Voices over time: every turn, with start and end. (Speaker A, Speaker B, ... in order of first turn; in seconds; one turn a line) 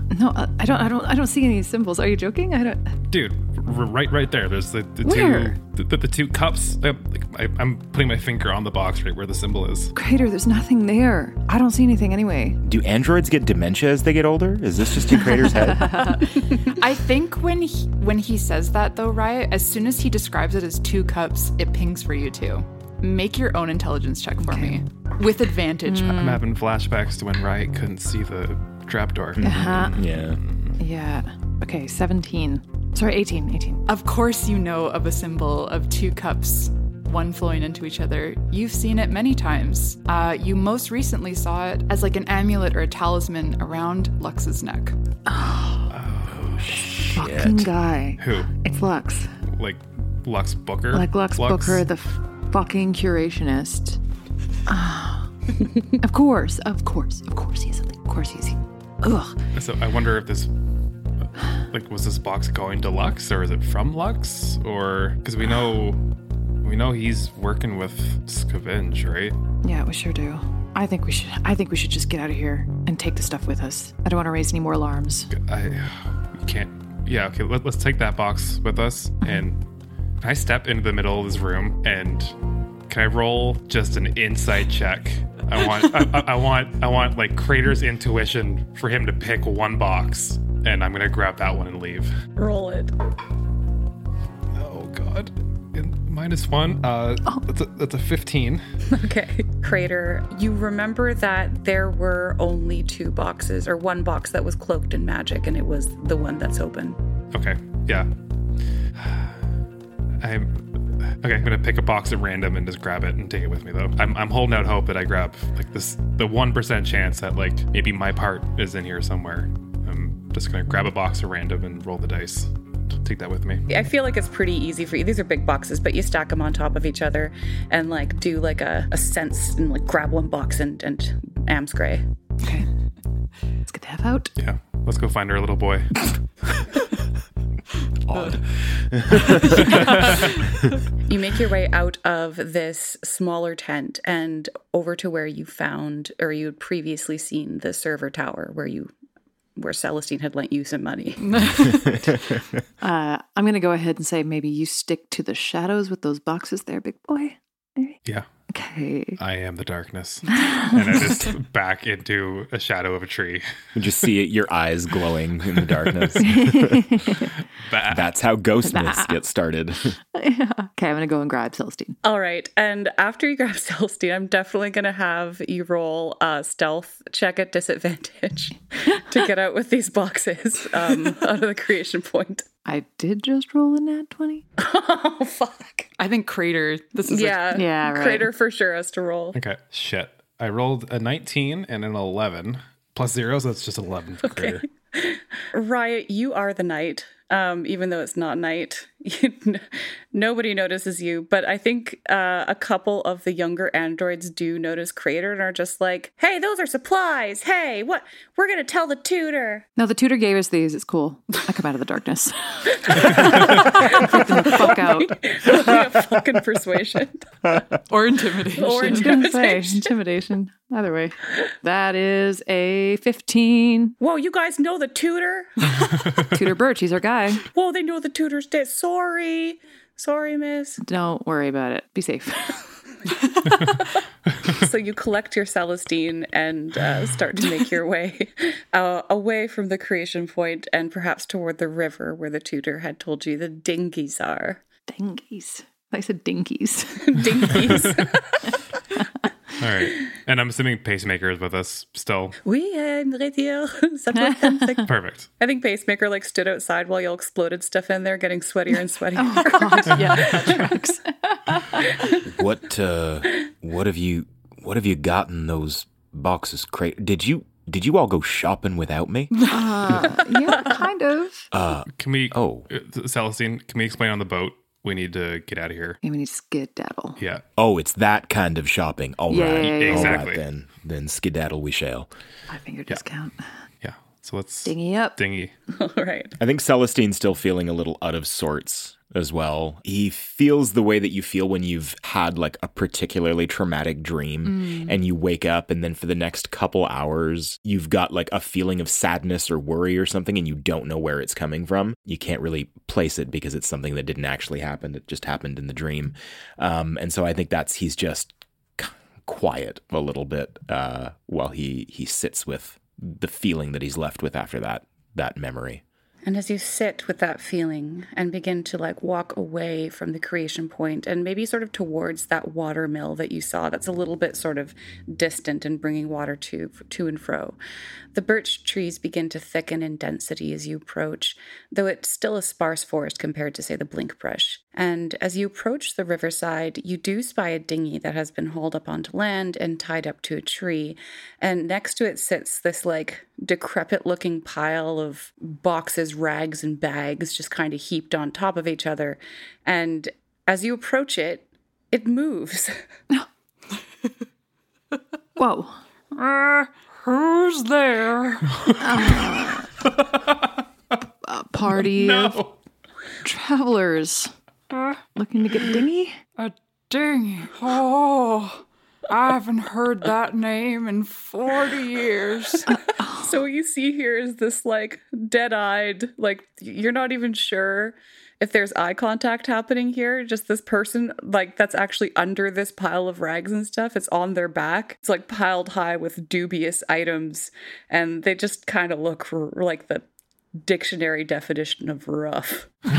Speaker A: 0.1-2.9
Speaker B: 3.1-9.9
Speaker A: 5.0-5.5
Speaker A: 9.9-12.6
Speaker C: 12.6-16.2
Speaker A: 15.6-16.3
Speaker D: 16.6-26.2
Speaker A: 24.4-24.8
Speaker A: 25.8-26.4
Speaker B: 26.1-30.8
Speaker C: 29.4-30.4
Speaker A: 29.4-30.0
Speaker A: 30.8-33.8
Speaker D: 33.9-45.0
Speaker A: 45.3-45.9
Speaker B: 45.9-46.9
Speaker C: 46.5-47.7
Speaker A: 46.8-49.3
Speaker B: 48.2-48.5
Speaker B: 49.5-51.8
Speaker A: 50.9-54.0
Speaker A: 54.7-55.3
Speaker A: 56.0-59.4
Speaker B: 59.5-60.5
Speaker B: 61.7-66.0
Speaker B: 66.6-69.3
Speaker A: 69.6-75.3
Speaker B: 75.3-79.6
Speaker B: 80.2-82.3
Speaker B: 82.9-92.1
Speaker E: 92.4-92.9
Speaker B: 94.5-98.6
Speaker E: 98.9-107.0
Speaker B: 107.3-108.1
Speaker B: 109.0-109.3
Speaker B: 110.2-123.7
Speaker E: 123.7-132.0
Speaker A: 132.4-132.7
Speaker A: 133.7-134.3
Speaker B: 134.4-136.1
Speaker C: 138.1-140.7
Speaker B: 139.8-140.1
Speaker E: 141.0-148.9
Speaker E: 149.6-151.5
Speaker D: 151.2-152.1
Speaker A: 152.8-159.2
Speaker B: 159.2-163.5
Speaker A: 160.3-161.2
Speaker C: 163.7-167.0
Speaker A: 166.2-167.3
Speaker B: 167.6-168.1
Speaker C: 167.8-170.0
Speaker A: 168.6-169.2
Speaker A: 170.1-172.0
Speaker E: 172.0-182.4
Speaker A: 182.6-184.4
Speaker E: 184.6-185.9
Speaker D: 186.0-187.4
Speaker E: 187.1-189.4
Speaker A: 187.5-188.3
Speaker B: 189.3-194.6
Speaker E: 194.3-209.7
Speaker A: 209.8-215.2
Speaker E: 212.9-217.4
Speaker D: 217.9-219.2
Speaker E: 218.5-219.9
Speaker A: 218.8-224.0
Speaker E: 224.0-225.9
Speaker A: 226.2-227.4
Speaker E: 227.4-230.8
Speaker A: 230.8-232.6
Speaker E: 234.4-244.6
Speaker A: 244.9-247.7
Speaker E: 247.0-248.4
Speaker B: 249.6-252.4
Speaker E: 252.4-260.7
Speaker A: 254.1-254.8
Speaker B: 254.8-255.3
Speaker A: 259.1-261.9
Speaker C: 262.1-270.0
Speaker A: 269.4-271.5
Speaker C: 271.5-272.7
Speaker B: 271.9-276.0
Speaker A: 276.0-277.2
Speaker B: 277.2-277.4
Speaker C: 277.6-282.1
Speaker A: 279.3-280.2
Speaker B: 279.6-280.4
Speaker A: 282.5-283.5
Speaker B: 283.8-285.5
Speaker A: 284.6-285.2
Speaker E: 285.7-286.4
Speaker C: 286.4-315.8
Speaker E: 316.2-327.6
Speaker E: 328.1-352.8
Speaker A: 355.4-355.8
Speaker D: 356.1-358.8
Speaker A: 358.8-359.7
Speaker B: 359.9-360.6
Speaker A: 361.2-362.4
Speaker B: 361.8-362.5
Speaker A: 363.2-364.3
Speaker A: 365.1-366.2
Speaker D: 366.4-372.7
Speaker A: 373.0-373.3
Speaker E: 373.1-390.0
Speaker E: 390.6-392.7